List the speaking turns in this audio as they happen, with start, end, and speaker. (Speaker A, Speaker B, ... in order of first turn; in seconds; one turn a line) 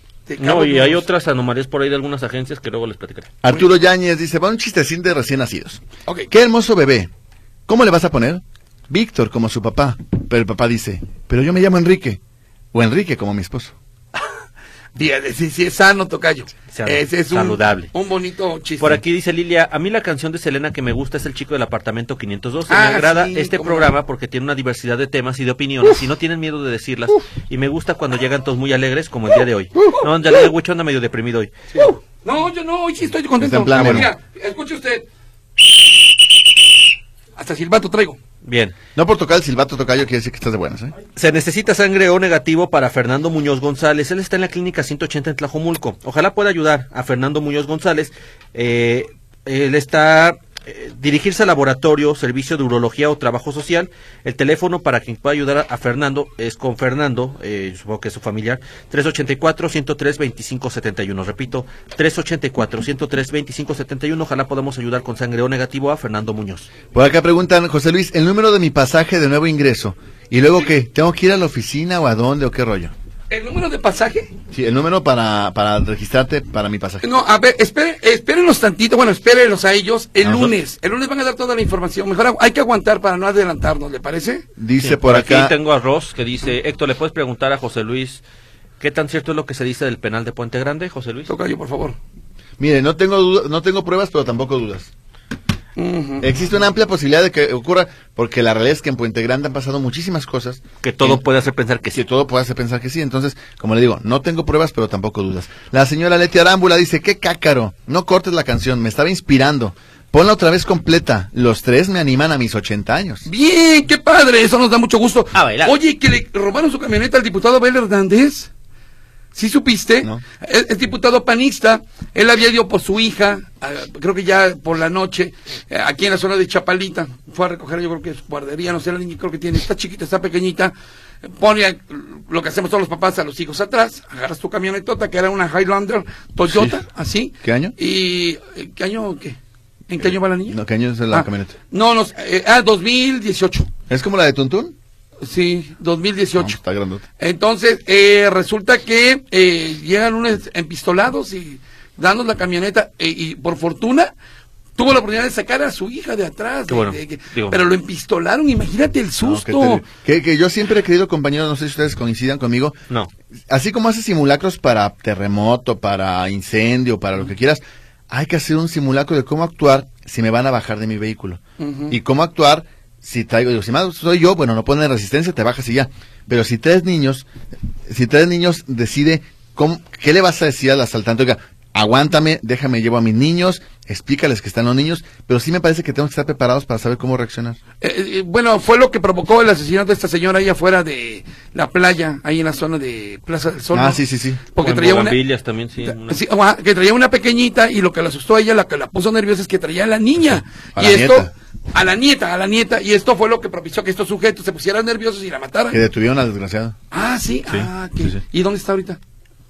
Speaker A: 0.3-1.0
Speaker B: 0.4-3.3
Speaker C: 3.4-7.1
Speaker C: 7.7-12.2
Speaker C: 12.7-13.7
Speaker A: 14.9-19.0
Speaker B: 16.7-17.9
Speaker B: 18.8-31.7
Speaker A: 22.7-23.9
Speaker A: 31.7-35.0
Speaker C: 33.4-34.1
Speaker B: 33.7-34.0
Speaker A: 37.4-38.2
Speaker B: 38.4-38.7
Speaker C: 39.0-40.9
Speaker B: 41.1-66.7
Speaker C: 66.9-72.9
Speaker A: 73.3-74.3
Speaker C: 74.5-77.0
Speaker A: 77.0-84.5
Speaker B: 80.2-80.5
Speaker C: 84.6-85.5
Speaker B: 84.8-88.2
Speaker B: 88.8-91.3
Speaker A: 91.3-92.0
Speaker C: 92.6-94.9
Speaker A: 95.8-96.3
Speaker C: 96.2-101.2
Speaker B: 100.8-102.0
Speaker C: 101.9-113.3
Speaker A: 113.3-118.5
Speaker B: 115.3-115.7
Speaker A: 119.3-130.7
Speaker A: 131.2-139.4
Speaker C: 136.4-136.8
Speaker C: 137.4-137.7
Speaker A: 139.9-140.6
Speaker C: 140.5-141.6
Speaker A: 141.1-143.7
Speaker C: 143.9-144.7
Speaker A: 145.2-146.6
Speaker C: 146.4-147.0
Speaker A: 147.2-154.1
Speaker A: 154.8-159.8
Speaker B: 156.7-157.6
Speaker C: 159.2-162.8
Speaker C: 163.5-177.3
Speaker A: 171.6-171.9
Speaker C: 177.9-187.6
Speaker A: 187.8-194.0
Speaker C: 193.7-194.4
Speaker A: 194.5-195.2
Speaker B: 194.6-196.2
Speaker A: 195.8-205.8
Speaker C: 200.8-201.3
Speaker C: 205.7-206.8
Speaker A: 206.9-209.0
Speaker C: 207.5-208.2